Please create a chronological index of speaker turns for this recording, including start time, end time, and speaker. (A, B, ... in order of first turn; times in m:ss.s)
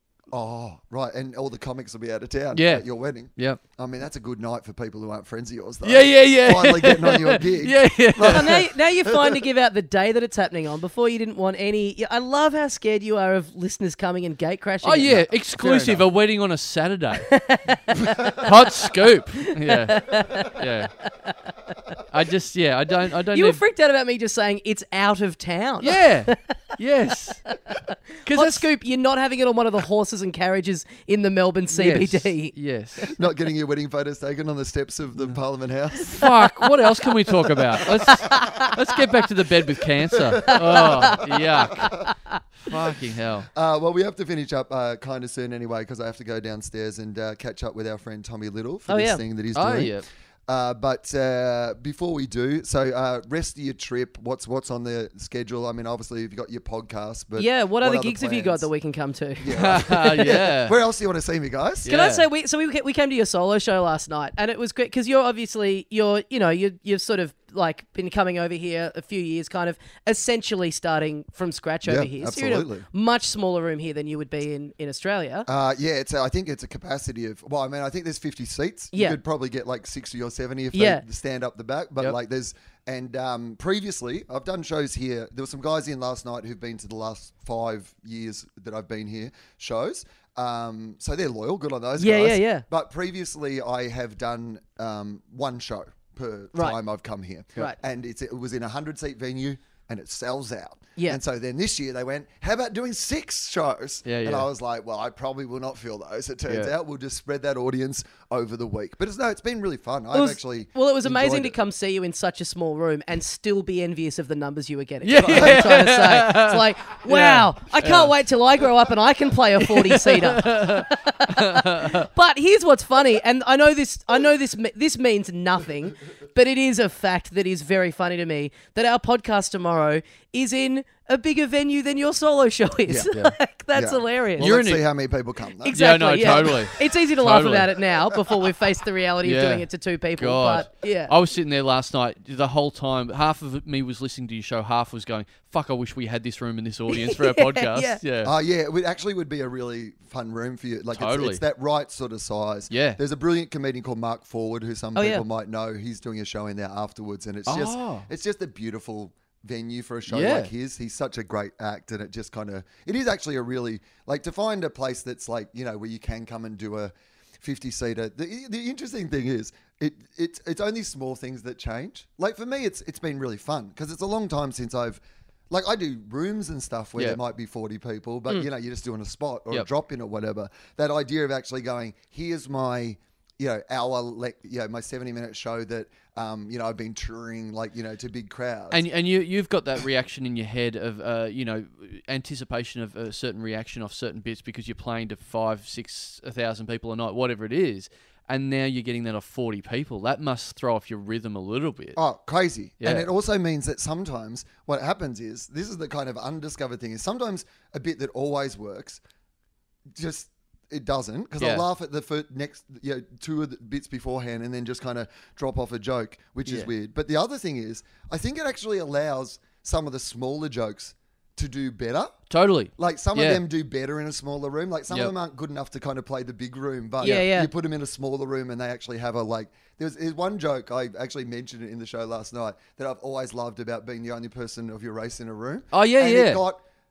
0:00.3-0:09.4 A
0:02.5-0:02.8 B
0:05.8-0:08.7 B
0:08.2-0:15.2 C
0:14.8-0:17.3 B
0:15.0-0:16.0 A
0:17.3-0:19.0 C
0:18.2-0:18.4 A
0:18.3-0:20.9 B
0:19.6-0:20.7 C
0:22.1-0:23.6 B
0:23.3-0:26.4 C
0:25.8-0:27.5 B
0:27.7-0:33.2 C
0:28.2-0:28.7 B
0:31.7-0:33.1 B
0:33.2-0:36.3 A
0:36.1-0:42.0 B
0:37.8-0:38.6 A
0:38.4-0:38.7 C
0:40.1-0:42.1 A
0:40.5-0:42.4 C
0:42.6-0:43.5 B
0:43.5-0:50.0 A
0:48.9-0:49.2 C
0:49.6-0:50.0 B
0:50.5-0:58.7 A
0:57.4-1:00.5 C
0:59.4-1:01.9 A
0:59.5-1:00.8 B
1:01.8-1:02.3 B
1:01.9-1:15.5 C
1:11.8-1:12.8 A
1:15.5-1:51.6 A
1:18.9-1:19.2 C
1:20.7-1:21.0 C
1:32.0-1:32.6 C
1:44.0-1:44.5 B
1:50.1-2:14.5 C
1:55.0-1:58.2 B
1:55.2-1:55.7 A
1:59.6-2:02.1 B
2:12.9-2:13.1 A
2:13.1-2:13.4 B
2:13.7-2:16.8 A
2:14.4-2:14.8 B
2:15.6-2:21.1 C
2:15.7-2:17.7 B
2:19.2-2:19.7 B
2:20.2-2:28.3 B
2:26.9-2:28.0 C
2:28.2-3:08.8 A
2:30.9-2:31.4 B
2:32.7-2:33.0 B
2:35.0-2:35.2 C
2:37.5-2:38.1 B
2:40.1-2:40.5 B
3:08.7-3:22.0 B
3:22.0-3:29.0 A
3:22.8-3:23.1 B
3:29.9-3:42.2 A
3:31.4-3:31.6 B
3:42.3-3:43.4 B
3:42.8-3:56.6 A
3:47.0-3:47.5 C
3:47.0-3:47.3 B
3:55.7-3:56.4 B